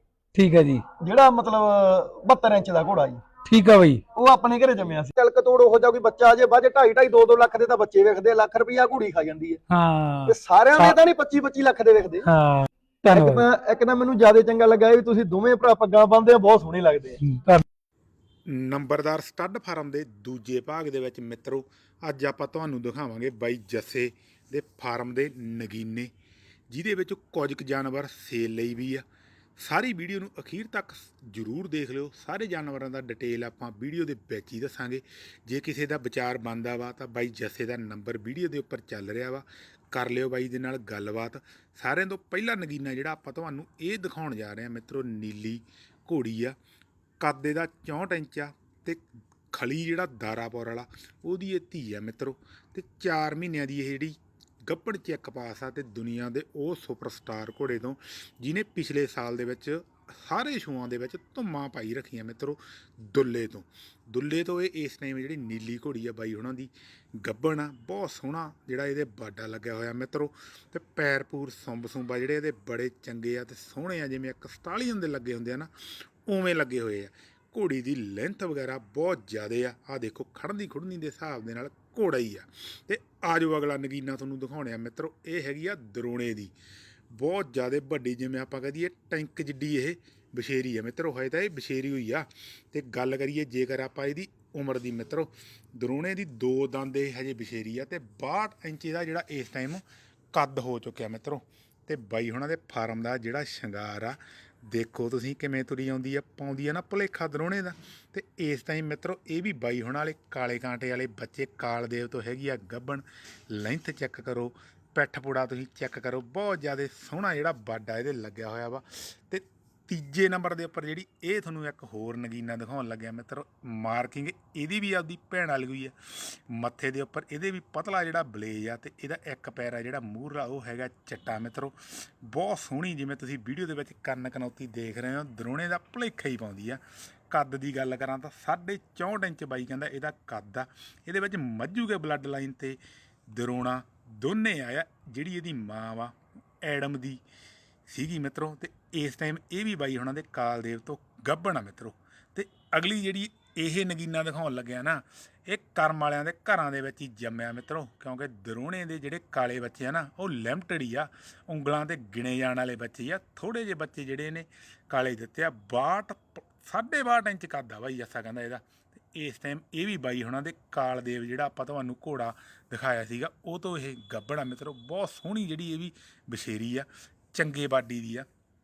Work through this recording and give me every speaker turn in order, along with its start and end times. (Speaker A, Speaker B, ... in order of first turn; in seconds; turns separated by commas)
Speaker A: 0.3-0.8, Speaker B: 1.0-3.2, Speaker A: 3.5-4.0, Speaker B: 4.1-9.6, Speaker A: 9.7-10.9, Speaker B: 10.3-12.2, Speaker A: 12.3-13.4, Speaker B: 13.1-17.2, Speaker A: 17.2-17.6, Speaker C: 18.5-26.1, Speaker C: 26.7-29.0, Speaker C: 29.6-46.5, Speaker C: 47.2-86.5, Speaker C: 87.1-142.8, Speaker C: 143.3-147.2, Speaker C: 147.9-178.3